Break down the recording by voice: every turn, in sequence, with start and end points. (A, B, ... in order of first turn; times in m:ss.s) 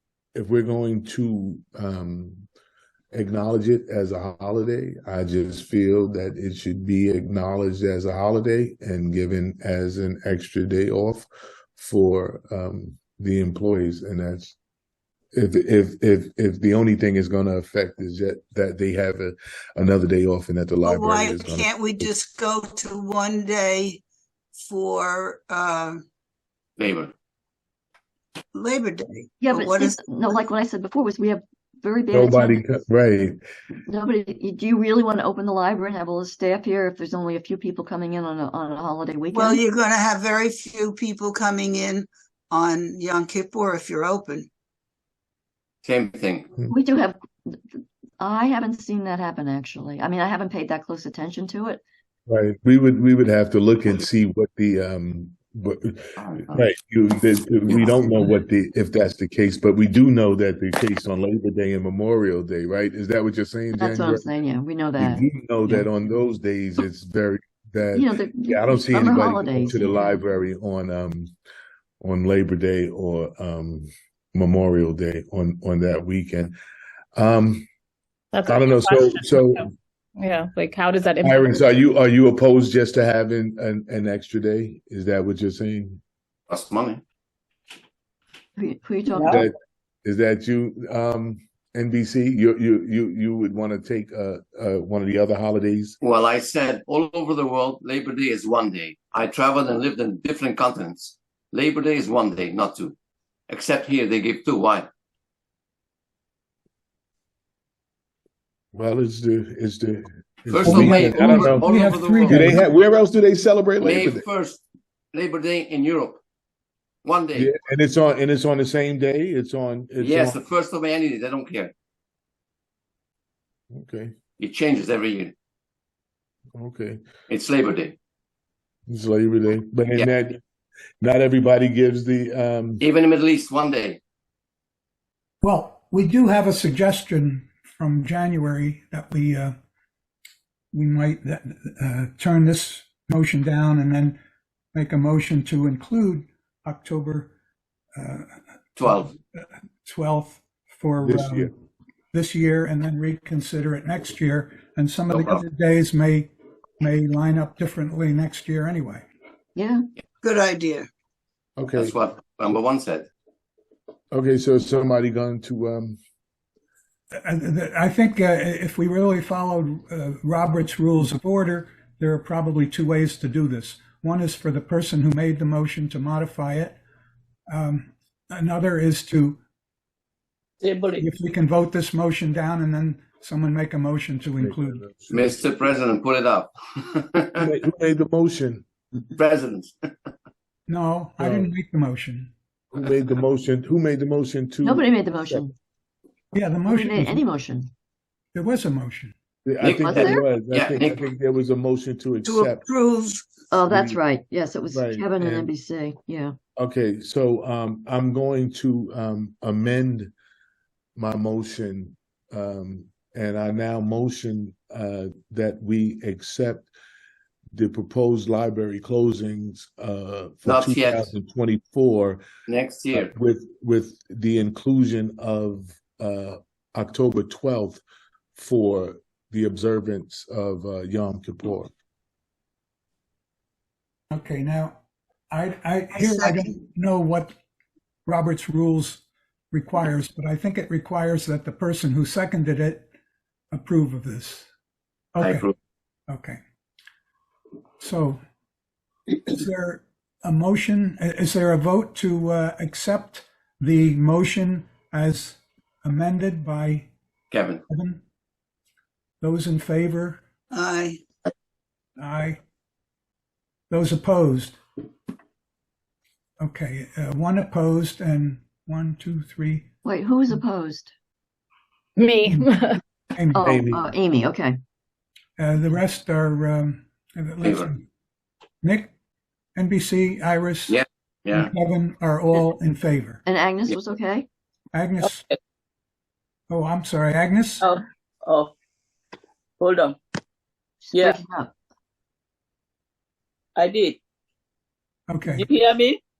0:00.3-0:02.4 A
0:03.1-0:14.6 A
0:15.3-0:22.1 A
0:20.8-0:24.0 B
0:24.6-0:26.0 B
0:26.8-0:27.1 C
0:28.5-0:30.4 B
0:29.4-0:32.6 D
0:32.1-0:33.4 A
0:33.9-0:39.6 D
0:39.3-0:44.5 B
0:45.8-0:46.5 C
0:46.7-0:51.8 D
0:52.3-1:04.3 A
0:56.2-0:56.6 C
1:03.8-1:05.8 D
1:05.0-1:11.3 A
1:07.9-1:10.2 D
1:12.0-1:16.5 A
1:17.2-1:17.6 A
1:18.3-1:19.6 E
1:18.4-1:19.7 A
1:20.2-1:21.6 E
1:21.2-1:26.0 A
1:26.5-1:27.0 C
1:28.6-1:29.4 D
1:29.1-1:29.4 F
1:29.3-1:36.0 A
1:36.0-1:42.9 C
1:43.5-1:44.9 C
1:48.7-1:51.7 A
1:50.5-1:52.6 C
1:50.6-1:52.6 G
1:52.2-1:54.2 A
1:53.8-1:54.6 C
1:55.1-1:56.2 C
1:57.0-1:57.5 C
1:57.3-2:00.4 A
2:00.0-2:01.7 C
2:03.7-2:04.1 A
2:04.4-2:05.3 C
2:06.5-2:07.0 A
2:07.3-2:08.0 C
2:08.9-2:10.4 A
2:11.0-2:12.8 A
2:12.8-2:14.0 C
2:15.4-2:19.5 G
2:20.7-2:24.2 G
2:24.7-2:27.3 G
2:28.0-2:31.5 G
2:28.8-2:29.1 C
2:31.0-2:31.5 A
2:32.1-2:39.0 G
2:35.1-2:35.4 C
2:39.6-2:39.9 D
2:40.2-2:40.9 B
2:41.6-2:42.0 A
2:41.7-2:43.1 C
2:44.1-2:46.0 A
2:47.2-2:56.8 G
2:57.5-2:59.4 G
3:00.6-3:01.1 F
3:01.0-3:04.8 G
3:04.4-3:05.4 A
3:05.1-3:07.4 C
3:07.4-3:08.6 A
3:09.2-3:09.7 C
3:10.7-3:12.3 G
3:11.2-3:11.5 A
3:12.7-3:15.5 A
3:14.6-3:15.5 D
3:16.3-3:17.3 G
3:16.6-3:17.7 D
3:18.3-3:19.1 G
3:19.4-3:22.6 A
3:19.6-3:21.0 C
3:19.7-3:20.2 D
3:22.2-3:23.3 B
3:23.5-3:26.4 D
3:23.6-3:24.0 A
3:24.7-3:25.5 A
3:26.6-3:30.1 A
3:31.0-3:36.7 A
3:37.5-3:42.2 A
3:40.4-3:41.1 C
3:42.5-3:43.1 C
3:42.9-3:47.8 A
3:48.3-3:51.7 A
3:54.1-3:54.8 G
3:55.3-3:57.3 G
3:55.9-3:56.6 B
3:58.0-4:02.8 G
4:03.5-4:04.4 G
4:05.1-4:05.5 G
4:05.2-4:05.5 C
4:06.1-4:06.4 G
4:07.8-4:08.2 G
4:09.1-4:16.9 G
4:17.3-4:17.6 C
4:17.7-4:18.0 G
4:19.2-4:20.2 G
4:20.5-4:21.0 B
4:22.0-4:22.4 G
4:23.7-4:24.6 G
4:26.4-4:29.7 G
4:29.8-4:30.9 D
4:32.0-4:32.8 E
4:32.2-4:32.6 G
4:33.2-4:33.4 G
4:33.3-4:34.6 D
4:33.4-4:33.9 A
4:35.4-4:37.8 G
4:37.4-4:37.7 C
4:38.6-4:38.9 G
4:39.6-4:43.2 G
4:40.7-4:41.5 C
4:43.2-4:44.3 D
4:44.7-4:45.2 G
4:45.0-4:45.4 F
4:46.5-4:47.6 G
4:47.6-4:48.5 F
4:49.6-4:50.0 F
4:50.9-4:51.2 F
4:50.9-4:51.5 D
4:53.5-4:54.0 F
4:55.1-4:55.5 G
4:55.2-4:56.0 F